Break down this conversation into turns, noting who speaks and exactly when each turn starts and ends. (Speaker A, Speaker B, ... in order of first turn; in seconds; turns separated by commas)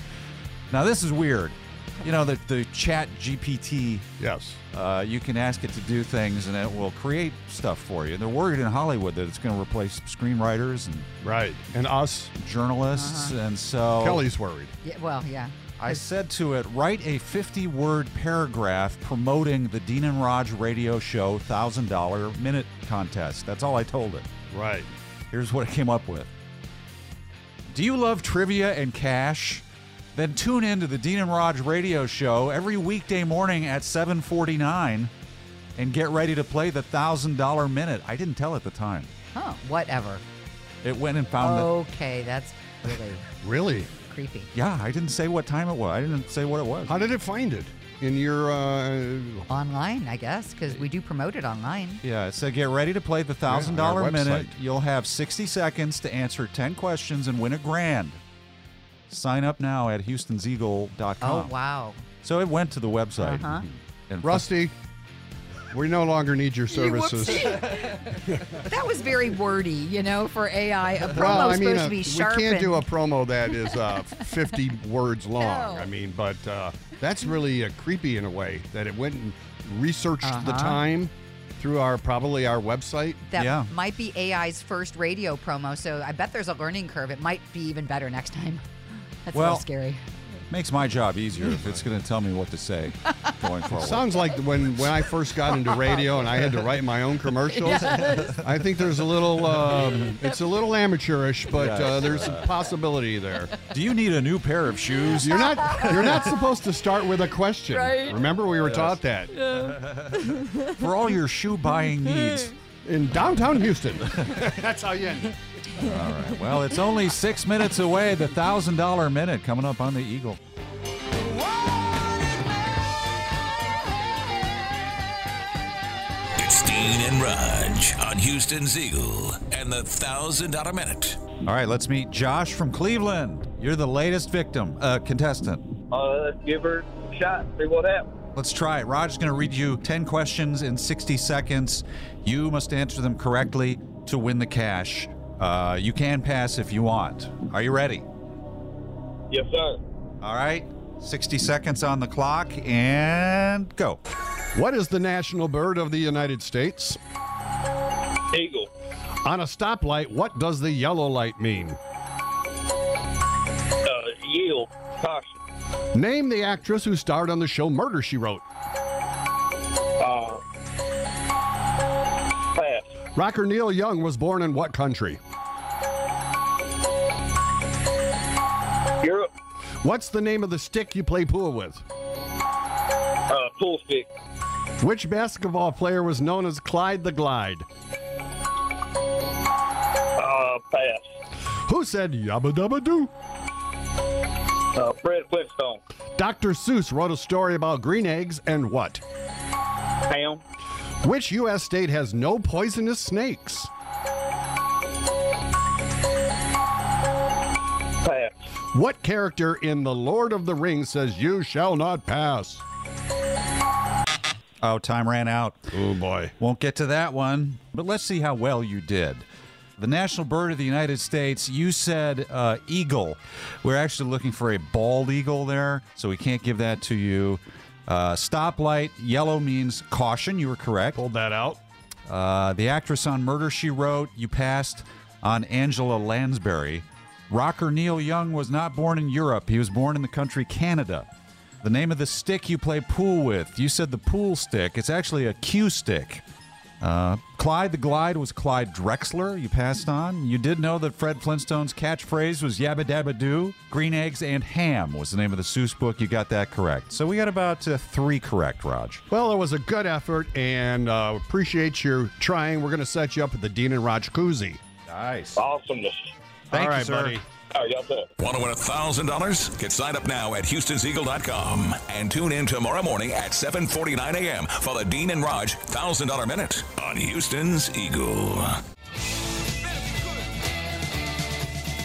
Speaker A: 0.7-4.1, Speaker B: 4.2-4.6, Speaker A: 4.7-11.1, Speaker B: 11.2-12.3, Speaker A: 12.4-14.2, Speaker C: 12.9-13.4, Speaker B: 14.0-14.7, Speaker C: 14.8-16.0, Speaker A: 15.8-24.3, Speaker B: 24.5-24.9, Speaker A: 25.3-26.3, Speaker A: 27.7-29.6, Speaker A: 30.1-35.1, Speaker A: 35.8-39.1, Speaker C: 39.3-40.2, Speaker A: 40.8-41.7, Speaker C: 41.4-43.3, Speaker B: 43.4-43.9, Speaker C: 44.0-44.5, Speaker A: 44.5-47.0, Speaker B: 46.9-49.5, Speaker C: 49.5-52.0, Speaker A: 52.0-58.2, Speaker B: 53.5-54.5, Speaker A: 59.1-61.5, Speaker C: 61.2-62.0, Speaker A: 62.2-64.5, Speaker C: 63.2-63.6, Speaker B: 64.2-64.7, Speaker B: 65.7-67.7, Speaker C: 66.7-72.9, Speaker B: 68.3-68.6, Speaker B: 71.1-83.2, Speaker C: 75.4-75.9, Speaker C: 80.2-80.8, Speaker C: 83.3-88.6, Speaker A: 83.4-83.7, Speaker C: 89.3-90.0, Speaker A: 89.3-89.7, Speaker A: 90.5-94.1, Speaker B: 93.7-103.6, Speaker C: 97.5-98.3, Speaker A: 97.9-98.4, Speaker A: 101.5-102.5, Speaker A: 103.7-106.3, Speaker B: 105.2-109.4, Speaker C: 105.6-105.9, Speaker C: 107.8-108.1, Speaker A: 108.7-109.0, Speaker A: 109.7-112.5, Speaker B: 112.8-115.4, Speaker A: 115.8-120.4, Speaker D: 126.4-131.3, Speaker A: 131.4-135.7, Speaker E: 135.9-138.1, Speaker A: 138.3-148.1, Speaker E: 149.3-149.8, Speaker A: 150.2-154.0, Speaker B: 154.6-157.0, Speaker E: 158.3-158.7, Speaker B: 159.2-161.8, Speaker E: 163.8-165.4, Speaker B: 165.9-168.4, Speaker E: 170.0-170.4, Speaker E: 172.6-172.9, Speaker B: 173.2-175.2, Speaker E: 179.0-179.3, Speaker B: 179.8-181.8, Speaker E: 183.3-184.1, Speaker B: 184.8-187.7, Speaker E: 190.2-191.1, Speaker B: 191.7-193.1, Speaker E: 194.8-195.8, Speaker B: 196.2-199.0, Speaker E: 200.1-200.4, Speaker B: 201.0-203.7, Speaker E: 208.0-208.4, Speaker B: 208.7-212.6, Speaker A: 214.6-215.7, Speaker B: 215.7-216.3, Speaker A: 216.4-219.2, Speaker A: 219.8-231.0, Speaker B: 230.9-231.6, Speaker A: 232.1-241.1, Speaker A: 241.6-246.2, Speaker A: 246.8-259.0, Speaker B: 259.1-264.6, Speaker A: 264.9-265.4, Speaker E: 265.4-266.1, Speaker A: 266.5-267.2, Speaker B: 266.5-267.2, Speaker E: 267.5-268.1, Speaker D: 268.2-278.6